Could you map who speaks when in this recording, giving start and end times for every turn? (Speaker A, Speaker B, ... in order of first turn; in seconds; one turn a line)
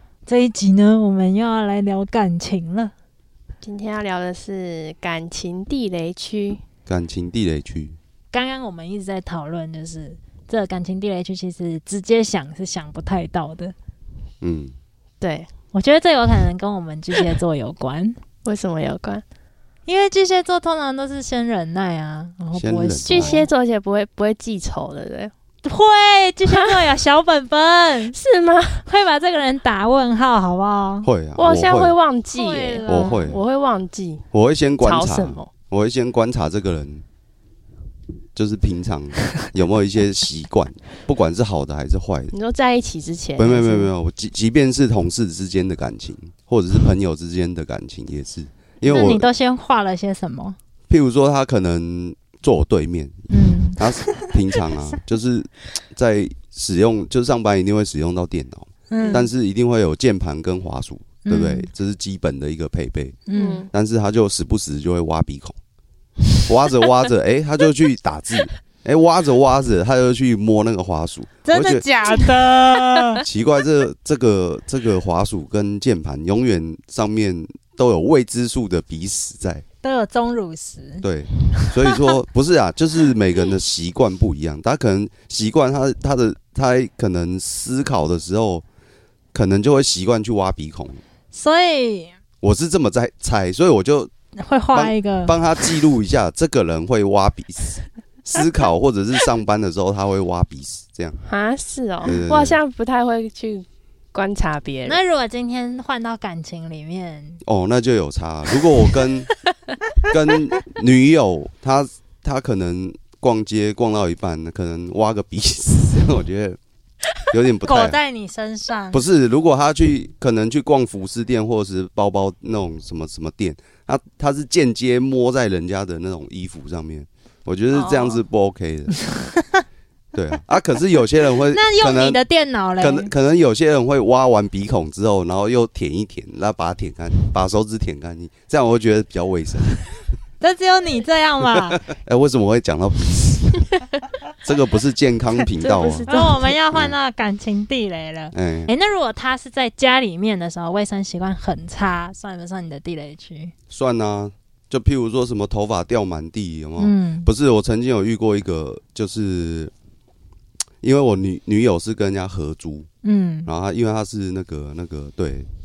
Speaker A: 0.3-2.9
Speaker B: 3.6-6.6
Speaker C: 6.9-8.0
Speaker A: 8.3-13.7
Speaker C: 14.4-14.8
Speaker B: 15.2-15.5
Speaker A: 15.7-18.2
Speaker B: 18.4-19.2
Speaker A: 19.9-23.5
Speaker C: 22.6-23.4
Speaker B: 23.1-25.3
Speaker A: 25.6-28.1
Speaker B: 28.1-28.8
Speaker A: 28.9-31.1
Speaker C: 31.0-31.9
Speaker B: 31.4-34.2
Speaker A: 32.3-33.3
Speaker C: 32.9-33.4
Speaker C: 34.3-37.0
Speaker B: 34.8-35.5
Speaker C: 38.4-42.3
Speaker B: 42.3-43.9
Speaker C: 43.4-49.3
Speaker A: 48.8-50.6
Speaker C: 50.9-63.2
Speaker A: 53.3-54.3
Speaker A: 58.9-59.3
Speaker B: 59.0-59.3
Speaker A: 61.2-61.7
Speaker A: 63.3-63.6
Speaker B: 63.3-63.7
Speaker C: 63.7-65.6
Speaker C: 66.5-71.8
Speaker A: 71.4-73.2
Speaker C: 73.2-79.6
Speaker A: 79.8-81.0
Speaker C: 81.0-88.7
Speaker A: 81.6-82.0
Speaker C: 89.3-91.0
Speaker A: 91.3-92.1
Speaker C: 92.4-94.1
Speaker A: 94.4-95.4
Speaker C: 94.7-101.2
Speaker B: 101.2-105.0
Speaker C: 102.0-102.6
Speaker A: 104.8-107.4
Speaker C: 107.4-109.3
Speaker C: 110.1-116.6
Speaker C: 117.3-118.0
Speaker A: 117.7-119.0
Speaker C: 118.9-129.1
Speaker B: 127.7-128.2
Speaker C: 130.1-132.2
Speaker A: 131.5-133.1
Speaker C: 132.8-139.8
Speaker A: 140.4-141.8
Speaker C: 141.8-143.7
Speaker C: 144.4-146.1
Speaker B: 145.6-146.5
Speaker A: 146.1-153.5
Speaker C: 148.3-148.7
Speaker C: 153.7-159.7
Speaker A: 156.8-157.3
Speaker C: 160.8-162.9
Speaker A: 163.0-163.5
Speaker C: 163.5-165.5